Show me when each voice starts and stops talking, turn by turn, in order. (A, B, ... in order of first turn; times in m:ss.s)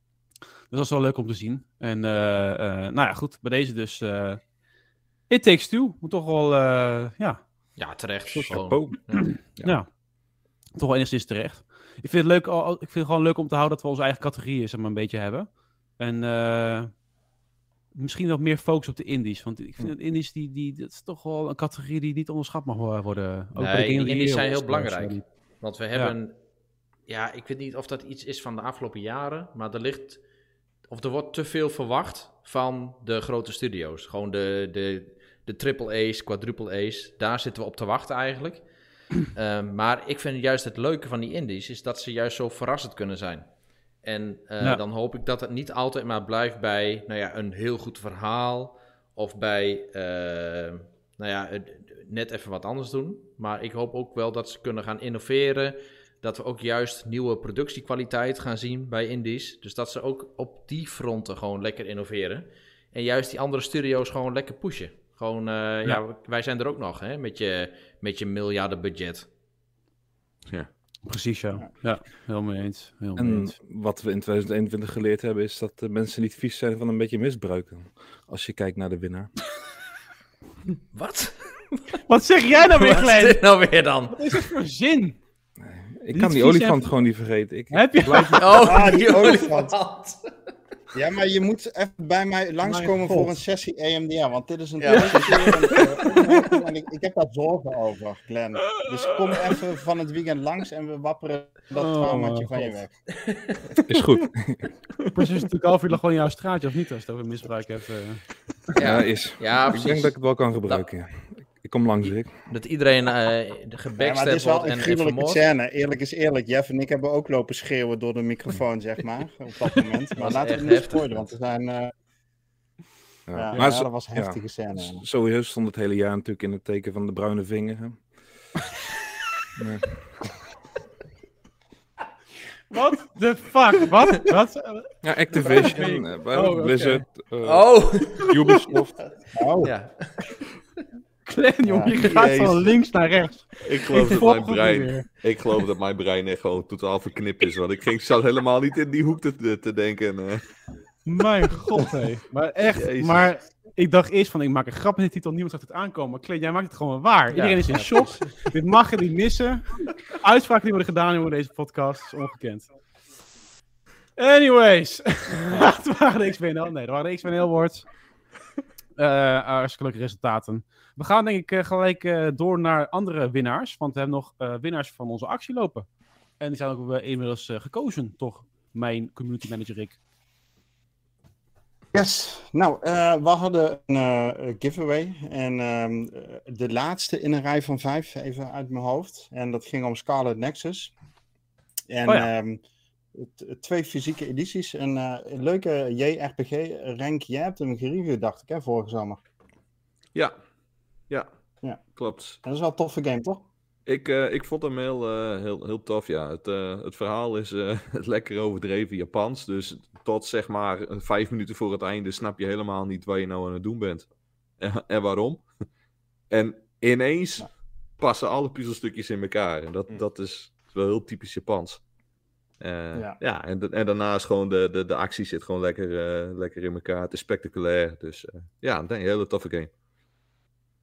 0:00.7-0:04.4 A
0:05.3-0:07.4 A
0:07.8-0:09.4 B
0:08.3-0:09.9 A
0:08.4-0:09.8 C
0:10.8-0:15.5 A
0:16.0-0:16.9 A
0:18.0-0:25.2 A
0:23.6-0:26.3 B
0:27.1-0:30.2 B
0:30.9-0:38.6 B
0:39.2-0:43.5 B
0:44.0-1:09.3 B
1:11.1-1:13.6 A
1:13.2-1:19.3 C
1:20.9-1:22.0 B
1:22.1-1:23.4 A
1:22.7-1:24.4 B
1:24.1-1:25.2 A
1:25.6-1:28.6 C
1:26.1-1:26.9 A
1:27.7-1:28.6 A
1:28.4-1:30.3 B
1:28.6-1:29.8 D
1:30.9-1:42.9 D
1:32.6-1:33.4 A
1:34.8-1:35.8 B
1:34.9-1:36.3 A
1:41.8-1:42.8 A
1:43.3-1:43.6 B
1:43.9-1:44.7 C
1:45.2-1:48.3 A
1:48.8-1:50.8 B
1:48.8-1:52.4 C
1:52.0-1:55.4 B
1:54.0-2:01.9 D
2:00.2-2:01.3 B
2:03.3-2:08.1 C
2:03.4-2:05.0 D
2:09.6-2:10.3 C
2:12.7-2:17.1 A
2:15.0-2:19.0 C
2:17.4-2:18.3 B
2:19.3-2:19.7 D
2:19.6-2:20.4 B
2:21.3-2:25.1 A
2:21.6-2:22.0 D
2:22.0-2:22.7 E
2:23.6-2:30.4 E
2:31.1-2:39.7 A
2:32.8-2:33.3 E
2:37.3-2:38.5 B
2:40.2-2:42.7 A
2:44.2-2:47.9 A
2:49.0-2:55.9 A
2:56.4-3:00.0 A
3:01.9-3:10.9 D
3:11.9-3:12.6 D
3:13.1-3:19.2 D
3:22.0-3:22.4 E
3:22.4-3:23.4 D
3:23.9-3:34.1 E
3:34.6-3:35.5 E
3:36.3-3:37.5 E
3:38.0-3:41.8 E
3:42.6-3:49.7 E